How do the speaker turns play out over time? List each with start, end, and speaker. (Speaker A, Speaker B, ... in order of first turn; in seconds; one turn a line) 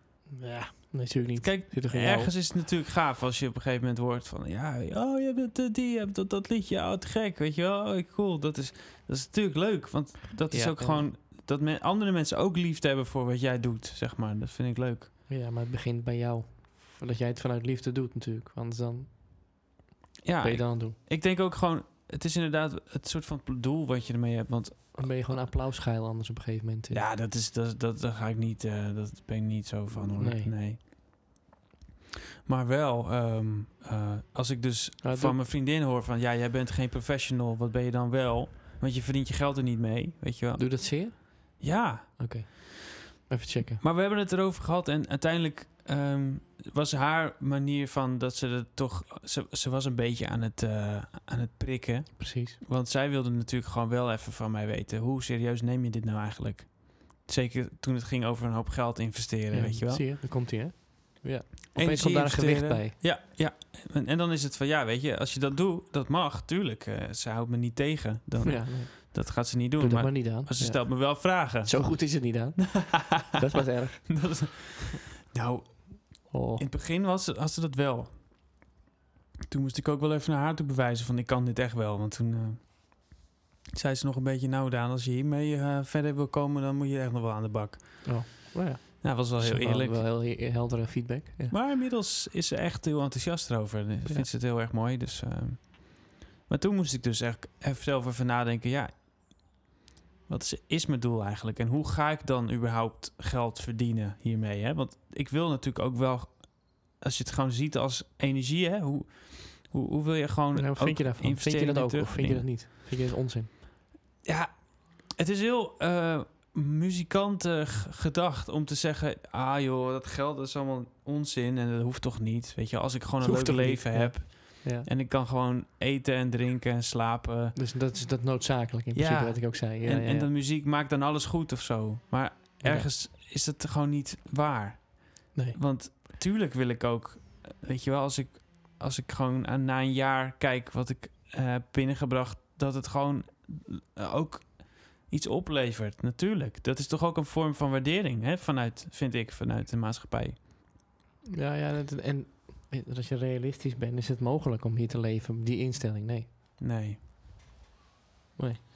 Speaker A: 0.3-2.4
Speaker B: 1.4-15.1
Speaker A: 10.5-11.1
Speaker A: 15.3-19.2
Speaker B: 20.2-25.4
Speaker A: 20.4-20.9
Speaker A: 24.9-27.0
Speaker B: 26.9-30.8
Speaker A: 30.1-30.5
Speaker B: 32.4-42.2
Speaker A: 35.0-35.4
Speaker A: 40.6-41.6
Speaker A: 42.2-43.8
Speaker B: 43.8-60.0
Speaker A: 52.2-52.6
Speaker A: 59.5-62.9
Speaker B: 61.7-73.4
Speaker A: 68.4-74.6
Speaker B: 74.0-78.2
Speaker A: 76.3-76.7
Speaker B: 79.5-83.2
Speaker B: 83.7-88.4
Speaker A: 88.0-91.5
Speaker B: 89.0-90.0
Speaker B: 91.5-99.6
Speaker B: 100.3-112.5
Speaker A: 110.5-113.5
Speaker B: 114.2-127.6
Speaker A: 123.2-124.9
Speaker A: 127.5-130.3
Speaker B: 128.9-150.4
Speaker A: 132.6-132.9
Speaker A: 135.3-135.6
Speaker A: 151.3-156.3
Speaker B: 156.6-157.0